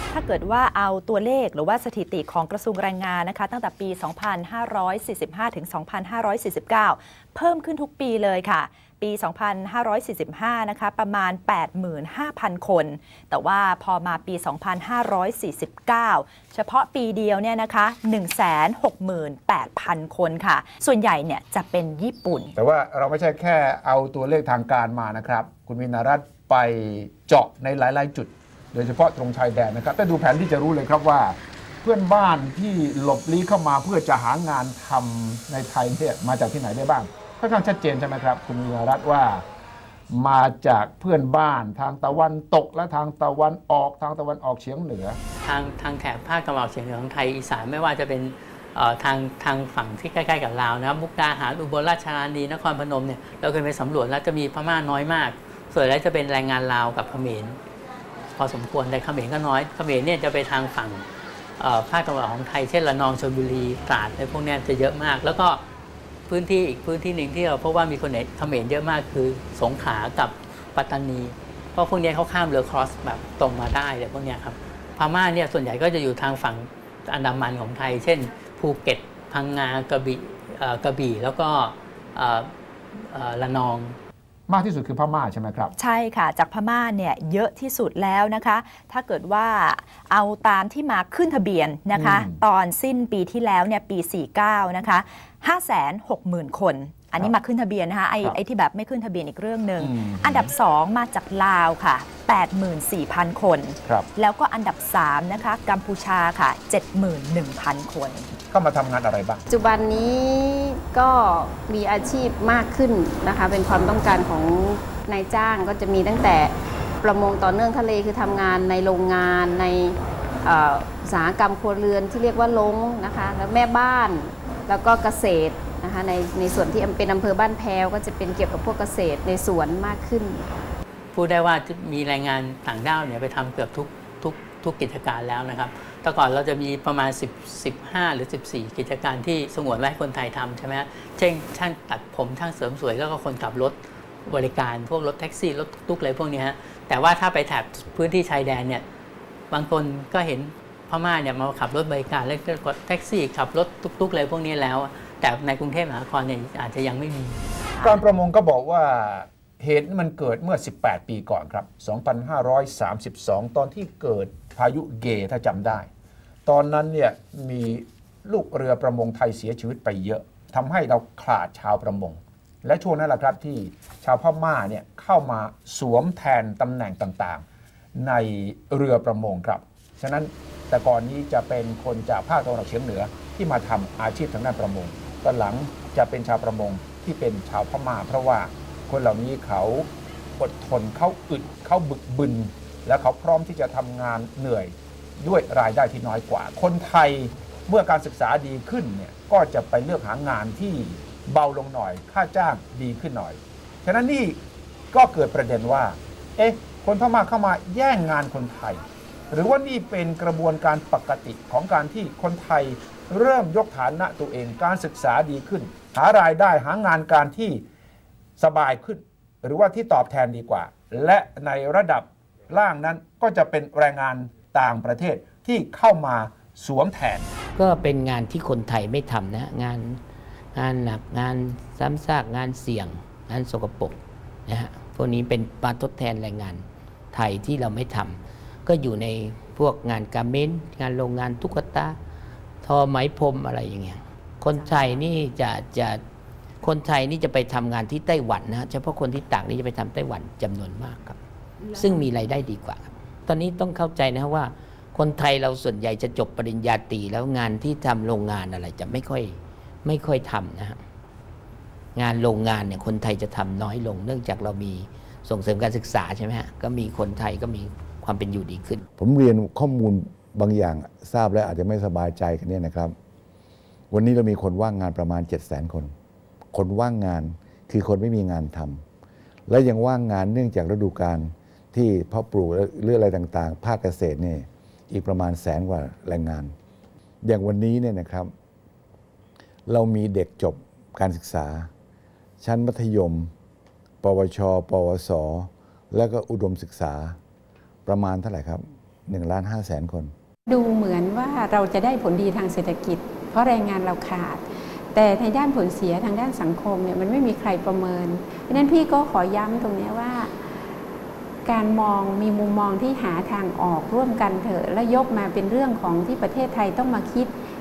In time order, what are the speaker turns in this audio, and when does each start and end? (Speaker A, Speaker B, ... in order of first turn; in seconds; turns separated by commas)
Speaker A: 0.1-22.5, Speaker B: 22.6-39.4, Speaker B: 40.1-45.2, Speaker C: 45.4-57.6, Speaker C: 58.4-61.0, Speaker C: 61.6-65.6, Speaker C: 66.3-84.0, Speaker B: 84.5-85.7, Speaker A: 85.8-108.3, Speaker B: 91.9-92.4, Speaker B: 99.8-100.5, Speaker B: 108.5-109.5, Speaker D: 109.5-130.4, Speaker C: 131.1-148.8, Speaker C: 149.5-157.4, Speaker B: 157.8-165.9, Speaker B: 166.5-177.4, Speaker B: 177.9-204.4, Speaker B: 204.9-217.6, Speaker B: 218.4-227.3, Speaker E: 227.6-230.0, Speaker E: 230.5-242.0, Speaker E: 242.6-246.0, Speaker E: 246.6-251.2, Speaker E: 251.7-260.8, Speaker E: 261.9-268.8, Speaker F: 269.0-272.9, Speaker F: 273.9-275.9, Speaker F: 276.5-278.8, Speaker F: 279.5-286.5, Speaker F: 287.2-288.3, Speaker F: 289.7-291.7, Speaker F: 292.4-293.3, Speaker F: 294.0-297.2, Speaker F: 297.9-300.1, Speaker G: 300.5-304.4, Speaker G: 304.9-310.3, Speaker G: 311.4-317.3